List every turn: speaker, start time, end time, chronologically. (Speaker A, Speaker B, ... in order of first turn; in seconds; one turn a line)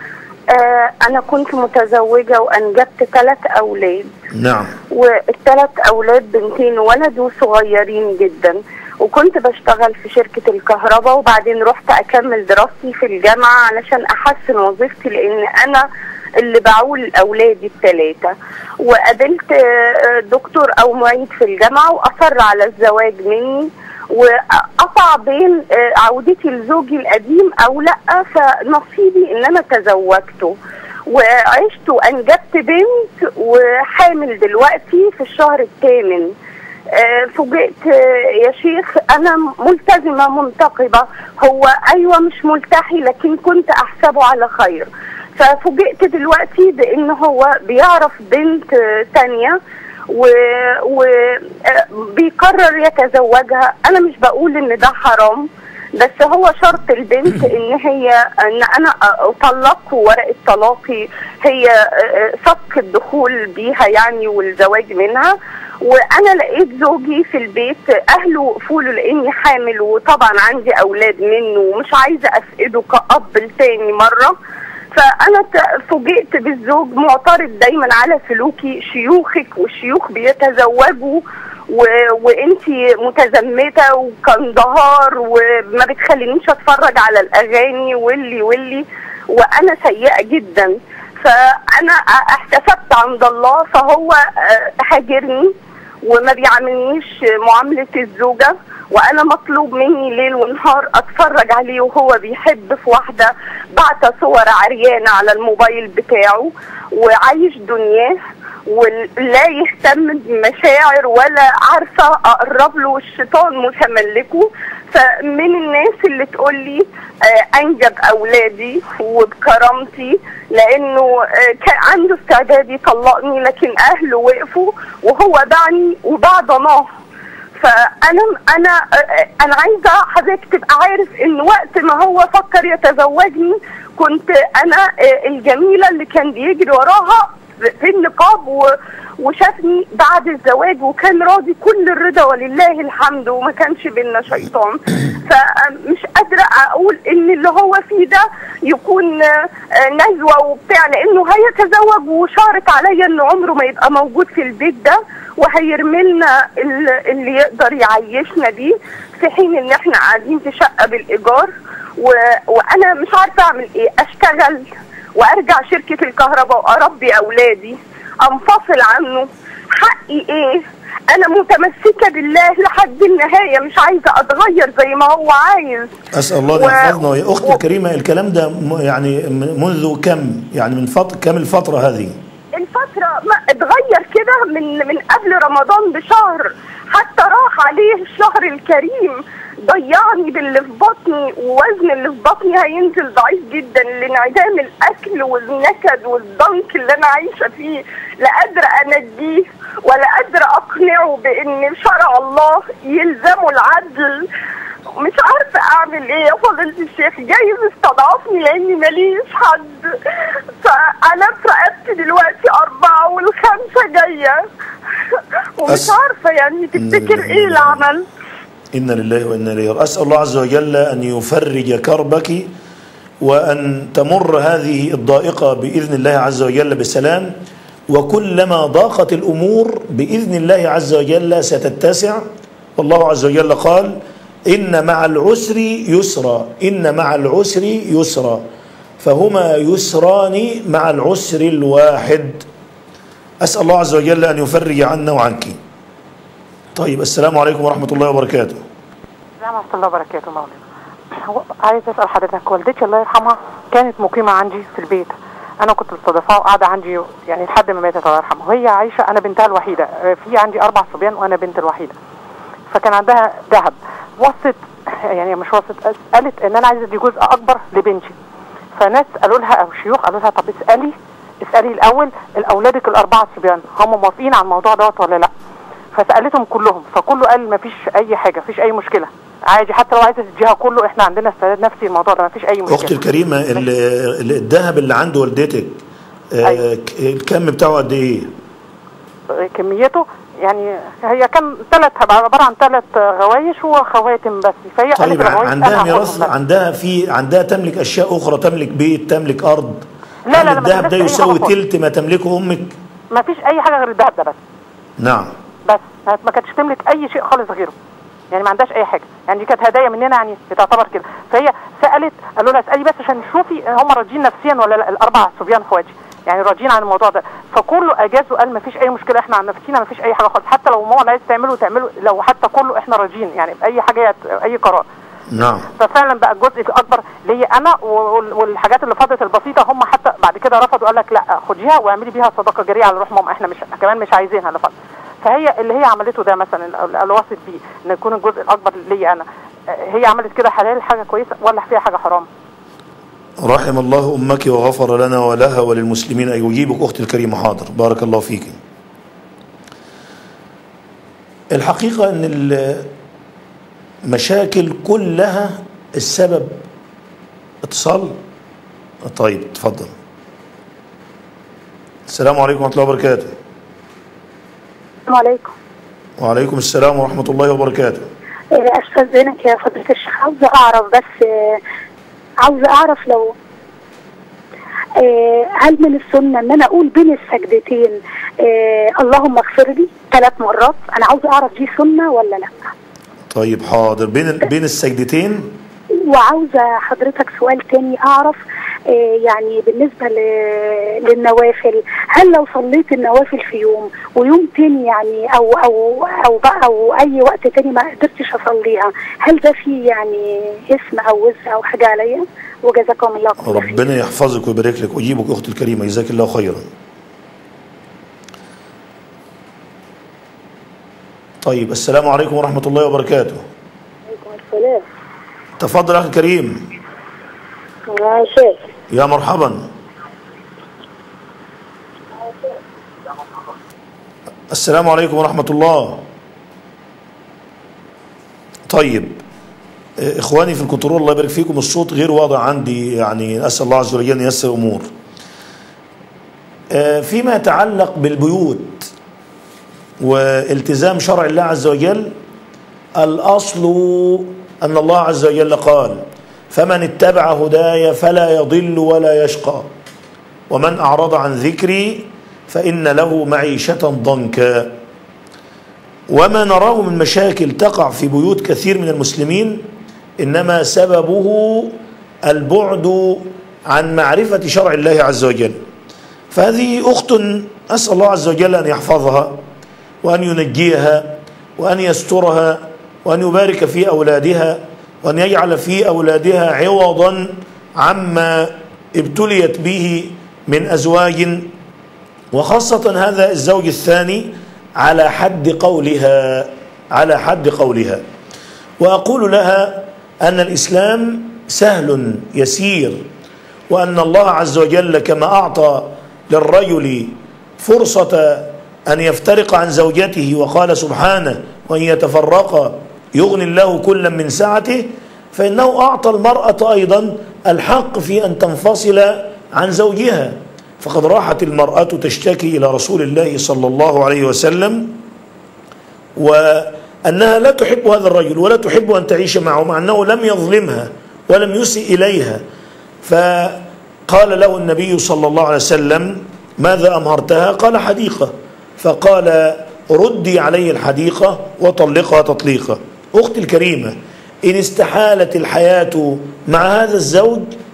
Speaker A: 0.5-4.1
Speaker B: 4.3-4.7
Speaker A: 4.9-15.8
Speaker A: 16.4-30.5
Speaker A: 31.1-36.3
Speaker A: 36.9-49.6
Speaker A: 50.1-74.3
Speaker A: 74.9-95.5
Speaker A: 96.0-108.2
Speaker A: 108.7-126.8
Speaker A: 127.6-175.9
Speaker B: 176.1-182.2
Speaker A: 176.6-176.9
Speaker A: 182.5-204.3
Speaker A: 205.0-209.8
Speaker A: 210.6-214.4
Speaker A: 215.6-218.0
Speaker B: 216.7-217.8
Speaker B: 218.7-222.5
Speaker B: 223.2-227.3
Speaker B: 227.9-232.2
Speaker B: 232.8-238.4
Speaker B: 239.0-242.4
Speaker B: 243.4-245.6
Speaker B: 246.7-248.6
Speaker C: 249.4-250.6
Speaker C: 251.1-261.9
Speaker C: 262.7-268.1
Speaker C: 268.8-275.3
Speaker C: 275.9-283.0
Speaker B: 282.7-285.8
Speaker B: 286.3-288.3
Speaker C: 289.4-296.3
Speaker B: 294.9-302.7
Speaker C: 300.3-301.5
Speaker C: 303.1-304.4
Speaker B: 305.0-305.3
Speaker C: 305.7-307.7
Speaker C: 308.3-324.8
Speaker B: 325.3-325.7
Speaker C: 325.8-342.3
Speaker B: 343.4-348.6
Speaker B: 351.5-352.9
Speaker B: 354.1-356.6
Speaker B: 357.6-358.2
Speaker B: 359.0-359.9
Speaker B: 362.1-363.3
Speaker D: 365.1-365.5
Speaker B: 366.2-368.1
Speaker D: 368.5-371.6
Speaker D: 372.4-373.3
Speaker D: 375.0-382.5
Speaker B: 383.3-385.5
Speaker D: 386.0-403.8
Speaker B: 403.4-406.7
Speaker B: 411.4-413.4
Speaker D: 414.1-414.8
Speaker B: 415.6-416.6
Speaker D: 417.9-418.6
Speaker B: 418.9-419.7
Speaker B: 424.5-426.0
Speaker B: 428.7-429.2
Speaker B: 430.0-434.9
Speaker B: 436.7-438.9
Speaker B: 440.0-442.1
Speaker B: 443.0-449.7
Speaker B: 450.5-454.7
Speaker B: 456.1-459.6
Speaker B: 460.2-465.6
Speaker B: 466.3-469.4
Speaker B: 470.0-481.5
Speaker B: 482.3-488.0
Speaker B: 488.8-493.1
Speaker B: 493.7-515.0
Speaker B: 516.1-522.4
Speaker B: 523.0-537.5